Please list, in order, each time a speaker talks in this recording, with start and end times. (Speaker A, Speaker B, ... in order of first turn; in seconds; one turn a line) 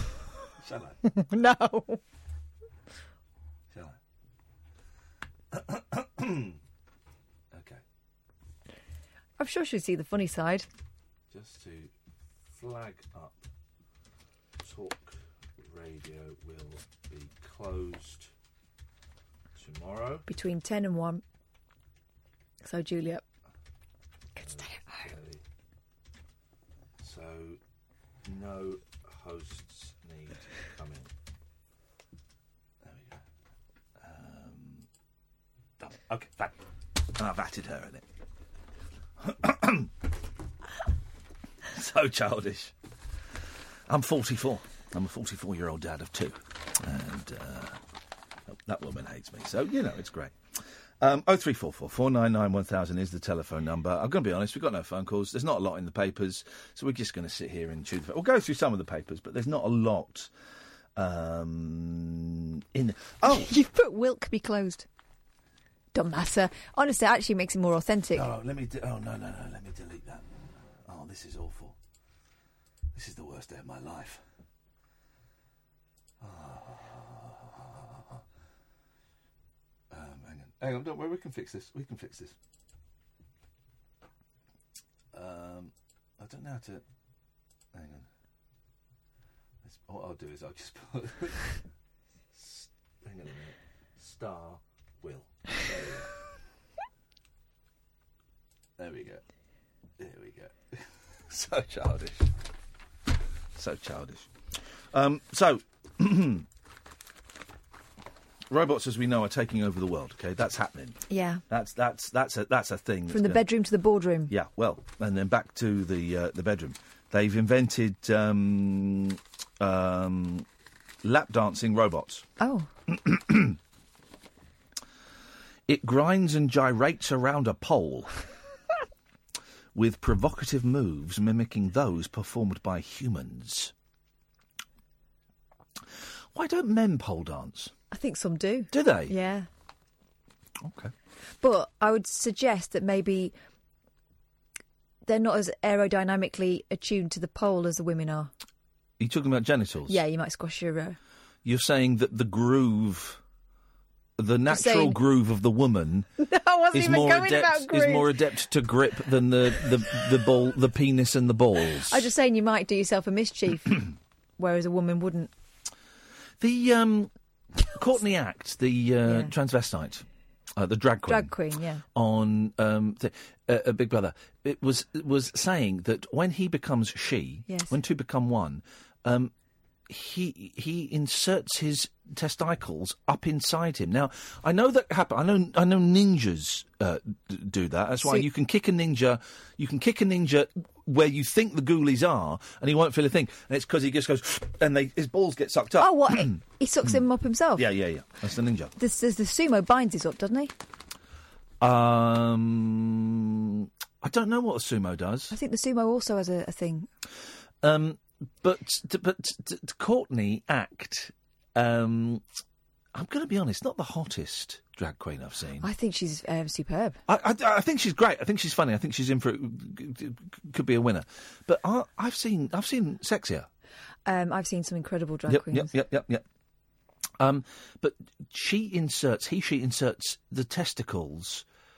Speaker A: 0.6-1.0
Speaker B: 1.1-2.0
Speaker A: 3.7-4.0
Speaker A: 5.5-6.6
Speaker A: 7.5-7.8
Speaker B: 9.4-10.7
Speaker A: 11.3-11.9
Speaker A: 12.5-13.4
Speaker A: 14.6-18.3
Speaker A: 19.6-20.3
Speaker B: 20.3-21.2
Speaker B: 22.6-23.2
Speaker B: 24.4-25.1
Speaker A: 24.4-25.4
Speaker A: 27.0-27.6
Speaker A: 28.2-31.1
Speaker A: 32.8-33.2
Speaker A: 34.0-34.9
Speaker A: 35.8-36.5
Speaker A: 37.2-38.0
Speaker A: 39.2-39.9
Speaker A: 41.7-42.7
Speaker A: 43.9-47.8
Speaker A: 48.5-50.4
Speaker A: 51.0-60.3
Speaker A: 61.0-63.5
Speaker B: 63.3-64.9
Speaker B: 65.9-68.3
Speaker A: 68.1-71.8
Speaker A: 72.9-74.2
Speaker A: 76.2-78.2
Speaker A: 79.9-82.3
Speaker A: 85.1-86.8
Speaker A: 87.7-88.1
Speaker A: 89.6-91.6
Speaker A: 92.3-96.1
Speaker A: 98.8-99.2
Speaker A: 100.0-102.3
Speaker A: 103.6-104.3
Speaker A: 104.9-106.5
Speaker A: 108.5-113.4
Speaker B: 111.1-111.4
Speaker B: 113.1-114.3
Speaker A: 114.3-120.5
Speaker A: 121.0-122.2
Speaker B: 122.4-122.7
Speaker A: 122.9-123.6
Speaker A: 125.7-128.1
Speaker A: 129.7-133.7
Speaker A: 136.3-137.7
Speaker B: 137.9-139.5
Speaker A: 138.7-139.1
Speaker A: 140.6-140.9
Speaker B: 141.4-143.3
Speaker B: 145.1-148.3
Speaker A: 149.0-150.0
Speaker B: 149.9-151.0
Speaker A: 151.4-153.2
Speaker A: 154.2-156.1
Speaker B: 154.5-155.0
Speaker B: 156.2-158.1
Speaker A: 156.7-162.1
Speaker B: 161.9-163.9
Speaker B: 164.4-165.3
Speaker A: 166.4-167.1
Speaker A: 167.7-170.1
Speaker B: 169.1-169.3
Speaker A: 170.6-171.3
Speaker B: 171.1-171.8
Speaker A: 171.9-179.3
Speaker B: 177.5-177.8
Speaker A: 179.9-197.0
Speaker B: 195.8-197.7
Speaker A: 197.6-198.7
Speaker B: 198.8-200.5
Speaker A: 201.6-205.3
Speaker B: 205.3-206.9
Speaker A: 207.6-212.2
Speaker A: 212.9-215.7
Speaker B: 215.6-217.0
Speaker A: 217.1-223.5
Speaker B: 224.1-225.7
Speaker A: 225.3-226.2
Speaker A: 227.2-231.4